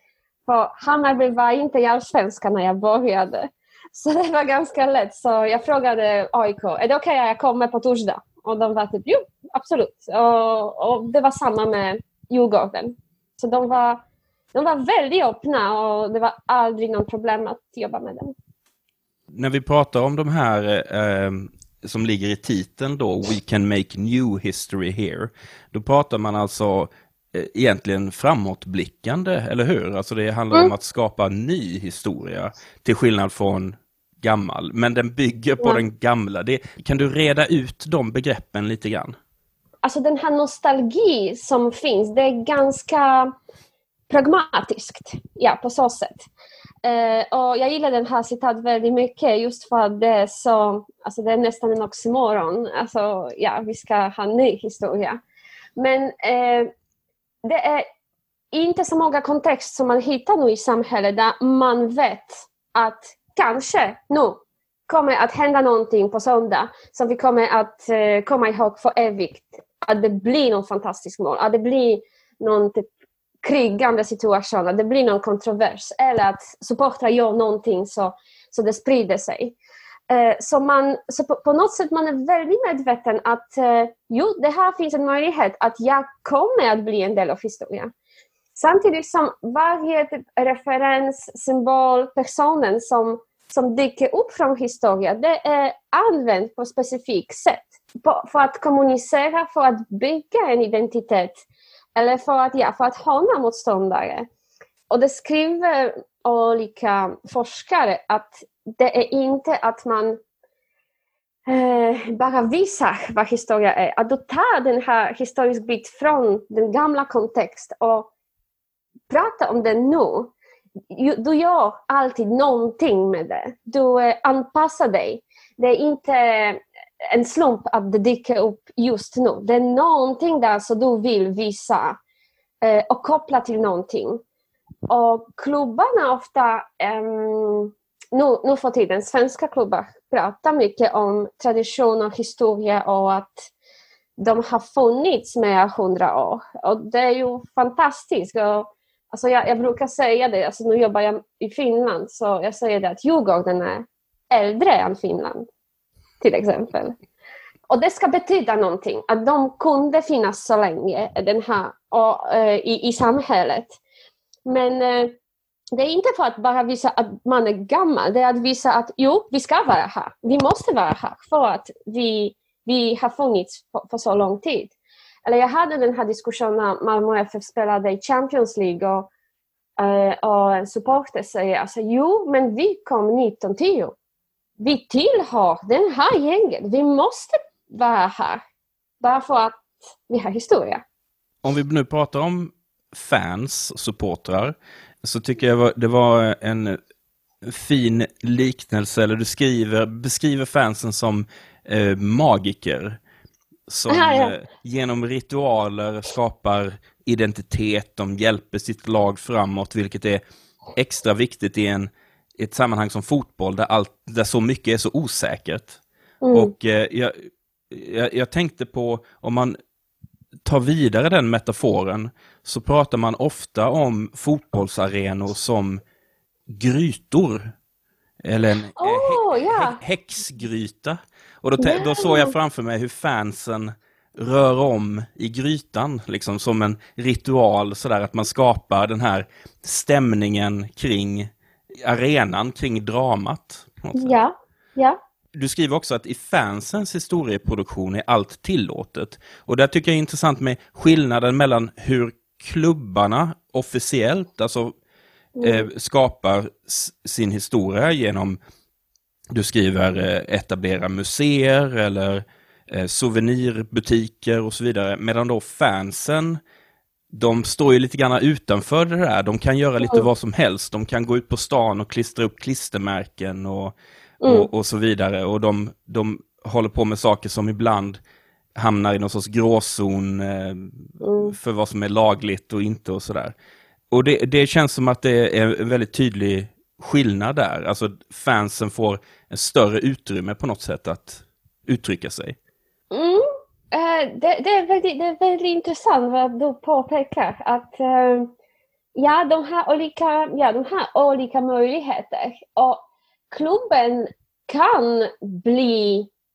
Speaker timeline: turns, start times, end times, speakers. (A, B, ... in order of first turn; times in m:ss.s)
0:00.5-0:14.0 A
0:14.5-0:18.4 A
0:19.3-0:39.2 B
0:39.8-0:43.3 A
0:44.1-0:46.3 A
0:46.8-0:55.2 A
0:55.8-0:56.7 A
0:57.4-0:57.9 A
0:58.5-1:12.9 A
1:13.4-1:19.6 A
1:20.1-1:27.9 A
1:28.6-1:44.3 A
1:44.9-1:50.2 A
1:51.5-1:58.1 A
1:59.1-2:00.3 A
2:00.9-2:12.0 A
2:12.6-2:14.2 A
2:14.9-2:23.5 A
2:24.2-2:35.5 A
2:36.2-2:37.0 A
2:37.7-2:43.8 A
2:44.5-2:45.2 A
2:45.8-2:54.7 A
2:55.3-2:59.1 A
2:59.8-3:04.0 A
3:04.6-3:08.4 A
3:09.0-3:10.8 A
3:11.4-3:16.8 B
3:17.4-3:23.0 B
3:23.7-3:30.2 B
3:23.9-3:24.4 A
3:30.8-3:35.8 B
3:36.2-3:36.5 A
3:36.3-3:39.6 B
3:40.4-3:45.8 B
3:46.5-3:47.5 B
3:48.2-4:04.2 B
3:48.8-3:49.8 A
3:51.6-3:52.4 A
4:04.0-4:05.0 A
4:05.4-4:14.8 B
4:15.4-4:15.7 A
4:15.4-4:18.4 B
4:19.3-4:26.4 B
4:27.1-4:38.0 B
4:34.2-4:34.5 A
4:38.6-4:43.4 B
4:41.0-4:41.4 A
4:43.9-4:52.4 B
4:52.9-4:58.3 A
4:59.0-5:06.1 A